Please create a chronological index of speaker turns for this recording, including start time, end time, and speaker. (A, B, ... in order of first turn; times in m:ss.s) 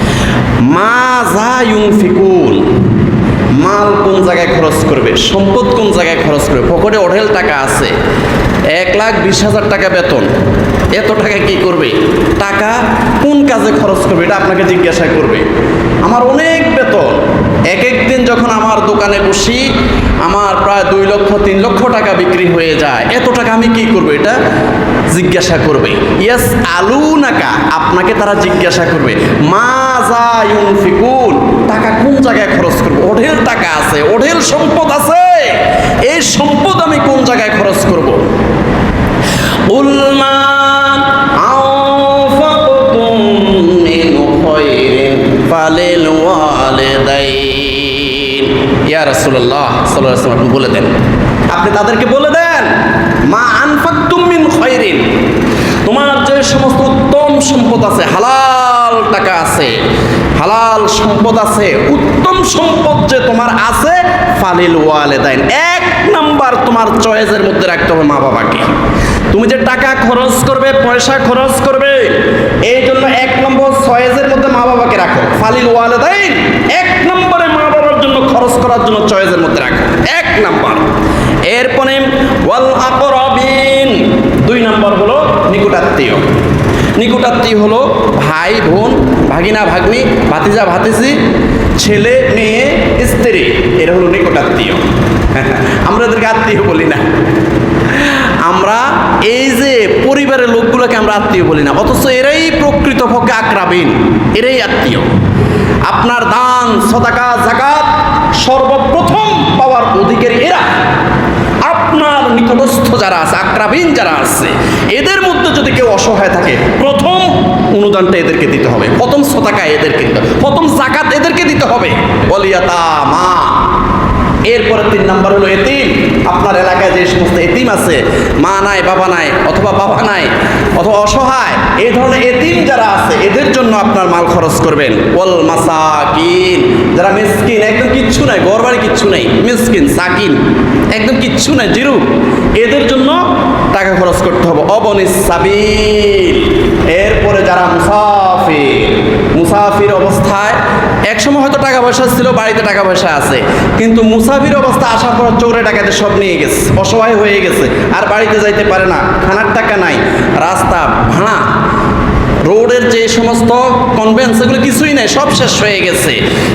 0:00.6-0:02.6 A
0:03.6-0:07.9 A
0:08.7-0:10.3 A
0:10.9-0:15.4 A
0:16.0-0:17.2 A
0:17.7-0:19.7 A
0:20.2-0:24.4 A
0:25.1-0:38.2 A
0:39.7-0:50.9 A
0:51.5-0:52.7 A
0:53.3-0:55.1 A
0:55.8-0:59.7 A
1:00.4-1:08.7 A
1:09.3-1:20.8 A
1:21.4-1:26.2 A
1:27.0-1:31.2 A
1:31.8-1:34.8 A
1:35.3-1:37.0 A
1:37.9-1:45.0 A
1:45.8-1:50.7 A
1:51.6-2:03.6 A
2:04.4-2:20.4 A
2:20.9-2:22.0 A
2:22.6-2:41.4 A
2:42.4-2:46.2 A